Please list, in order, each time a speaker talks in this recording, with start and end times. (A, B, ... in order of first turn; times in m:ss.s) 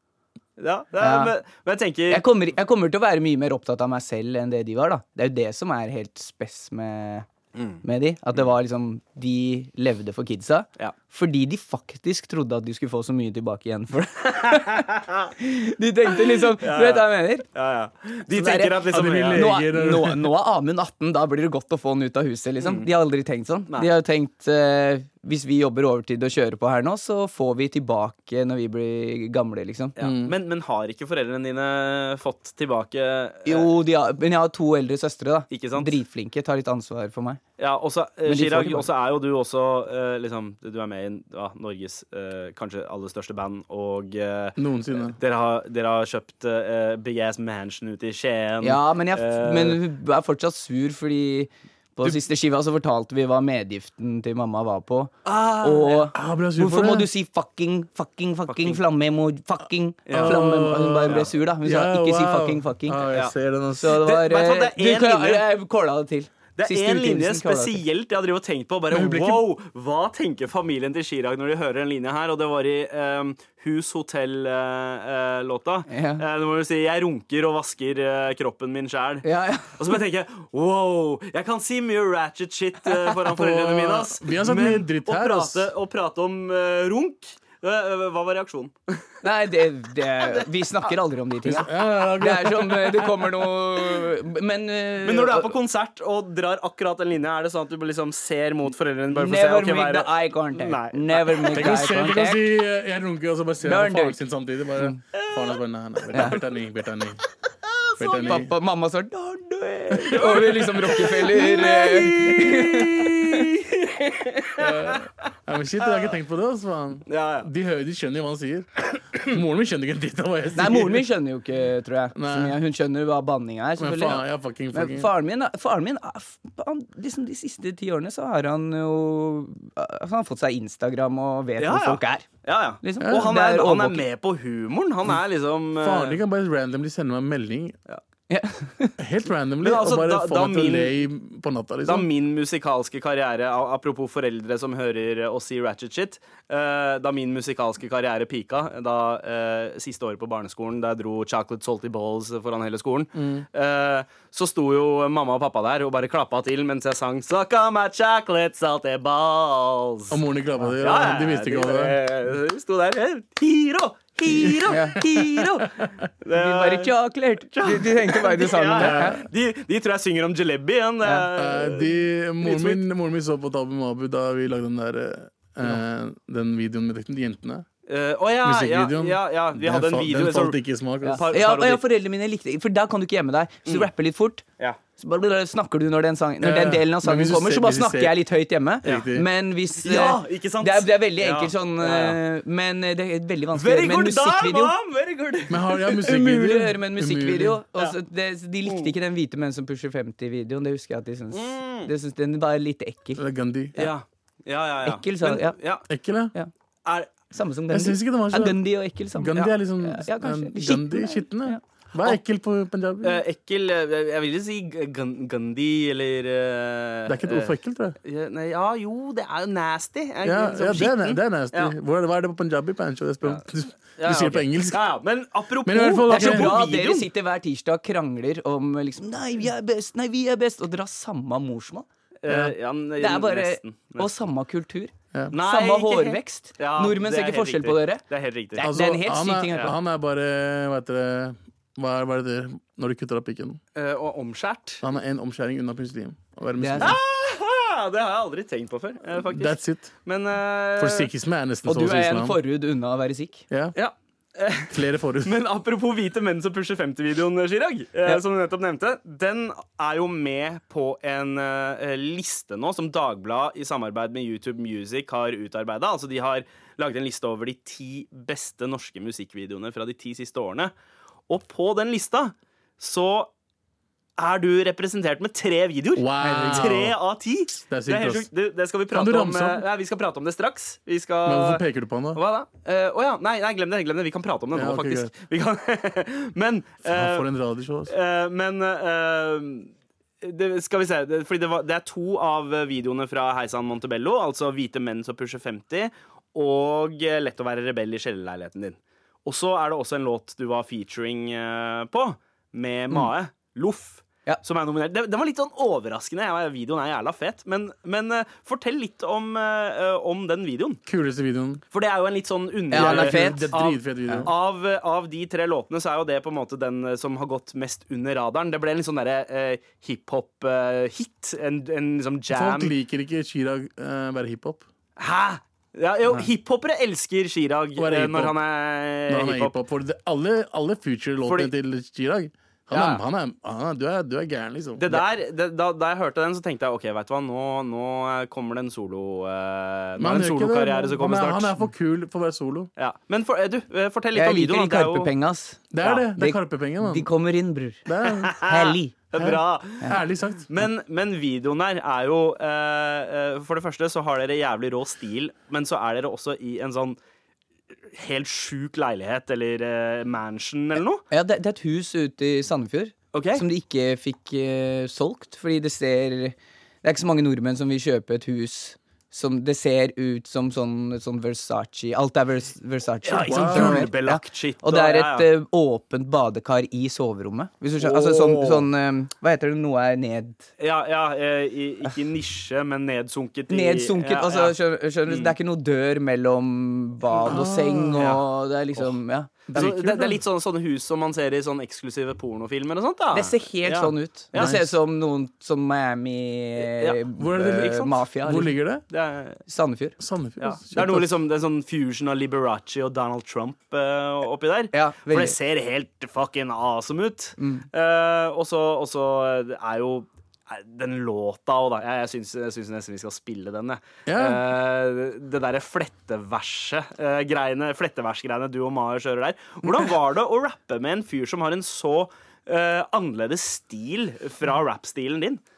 0:00.6-0:02.2 A
0:01.0-0:01.3 B
0:02.1-0:07.3 B
0:07.6-0:07.8 A
0:07.8-0:14.9 B
0:14.4-0:15.3 A
0:15.4-0:17.5 B
0:16.4-0:19.6 A
0:18.4-0:30.0 B
0:18.8-0:20.3 C
0:22.6-0:22.9 A
0:30.0-0:33.7 A
0:30.0-0:30.3 C
0:33.5-0:37.4 B
0:35.5-0:36.0 A
0:37.6-0:49.8 A
0:38.2-0:38.9 B
0:44.6-0:45.2 C
0:48.6-1:03.0 B
0:55.2-0:56.1 A
0:56.1-0:57.1 C
0:58.5-0:58.8 A
1:00.1-1:00.4 A
1:00.1-1:04.0 C
1:03.8-1:07.8 B
1:03.9-1:05.4 A
1:06.6-1:29.1 A
1:08.9-1:09.4 C
1:15.9-1:16.2 B
1:19.2-1:19.8 B
1:23.3-1:25.7 C
1:29.2-1:35.6 B
1:30.2-1:30.5 A
1:31.4-1:33.2 C
1:35.0-1:41.9 A
1:39.1-1:42.4 B
1:41.5-1:47.2 C
1:43.6-1:44.2 B
1:45.2-1:46.4 A
1:47.8-1:48.5 A
1:48.0-1:48.5 C
1:48.3-1:53.5 B
1:49.9-1:50.6 C
1:50.2-1:55.0 A
1:54.6-2:01.1 C
1:55.8-1:56.1 A
1:57.1-1:57.5 A
2:00.6-2:04.2 B
2:02.2-2:02.6 C
2:03.8-2:05.1 C
2:04.7-2:12.3 B
2:11.6-2:16.2 A
2:12.8-2:14.0 B
2:13.0-2:13.3 C
2:15.8-2:17.8 C
2:18.3-2:19.0 B
2:19.0-2:22.1 C
2:19.6-2:21.0 A
2:21.9-2:40.2 A
2:33.2-2:33.5 C
2:40.1-2:42.0 C
2:40.8-2:46.9 A
2:44.7-2:45.0 B
2:45.4-2:45.9 C
2:46.3-2:49.2 B
2:47.5-2:52.8 A
2:48.8-2:49.2 C
2:51.4-2:57.7 C
2:57.9-3:00.6 A
2:58.4-3:01.3 C
3:01.0-3:04.4 B
3:01.2-3:01.8 A
3:05.0-3:14.8 B
3:06.4-3:08.2 C
3:08.8-3:09.3 C
3:09.8-3:12.2 A
3:13.6-3:15.8 A
3:15.5-3:17.6 C
3:15.8-3:23.2 B
3:18.7-3:18.9 A
3:21.3-3:21.9 A
3:23.2-3:23.8 C
3:23.8-3:25.8 A
3:24.8-3:25.6 B
3:25.9-3:26.3 C
3:26.8-3:27.1 A
3:27.3-3:31.6 B
3:27.7-3:28.6 C
3:29.2-3:33.2 C
3:33.0-3:41.8 A
3:37.1-3:38.0 C
3:40.2-3:44.8 C
3:44.0-3:47.1 A
3:45.6-3:46.5 C
3:46.1-3:51.9 B
3:52.2-3:54.1 A
3:52.3-3:52.5 C
3:53.0-3:58.0 B
3:55.3-3:58.7 A
3:58.5-3:59.7 B
3:58.6-4:03.6 C
4:03.8-4:04.8 A
4:04.8-4:07.0 C
4:06.6-4:07.0 B
4:06.8-4:11.1 A
4:09.2-4:09.9 C
4:10.8-4:12.4 C
4:11.6-4:13.5 B
4:13.5-4:13.8 C
4:13.8-4:30.7 A
4:14.7-4:15.4 C
4:31.3-4:33.3 A
4:34.2-4:47.3 A
4:36.0-4:37.0 C
4:37.7-4:38.3 C
4:38.9-4:39.6 C
4:41.2-4:42.2 C
4:44.5-4:45.1 C
4:46.8-4:47.9 C
4:47.9-4:49.7 A
4:50.2-5:10.8 A
5:10.9-5:11.6 C
5:11.7-5:22.7 A
5:12.7-5:14.3 B
5:12.7-5:14.3 C
5:22.3-5:24.7 C
5:25.0-5:29.6 A
5:27.8-5:28.4 C
5:29.1-5:35.0 C
5:32.7-5:33.0 A
5:34.8-5:41.6 A
5:40.0-5:42.7 C
5:42.8-5:45.1 A
5:44.1-5:47.8 B
5:45.7-5:47.1 C
5:47.9-5:48.4 C
5:48.1-5:49.9 A
5:48.4-5:49.0 B
5:49.2-5:50.5 C
5:50.5-5:57.0 A
5:57.9-6:01.0 A
6:01.1-6:20.5 B
6:03.1-6:03.4 A
6:13.0-6:15.3 A
6:13.3-6:13.9 C
6:17.8-6:18.7 A
6:20.6-6:24.6 A
6:23.5-6:29.3 B
6:25.1-6:25.3 A
6:27.1-6:27.4 A
6:27.2-6:28.1 C
6:29.5-6:30.2 C
6:29.5-6:34.6 A
6:33.1-6:38.6 B
6:34.4-6:34.6 C
6:36.6-6:37.0 A
6:37.2-6:38.8 C
6:37.6-6:37.9 A
6:38.9-6:39.4 A
6:39.5-6:40.0 B
6:40.0-6:41.1 C
6:40.4-7:05.4 A
6:44.7-6:45.4 B
6:47.4-6:47.6 B
6:54.1-6:54.4 C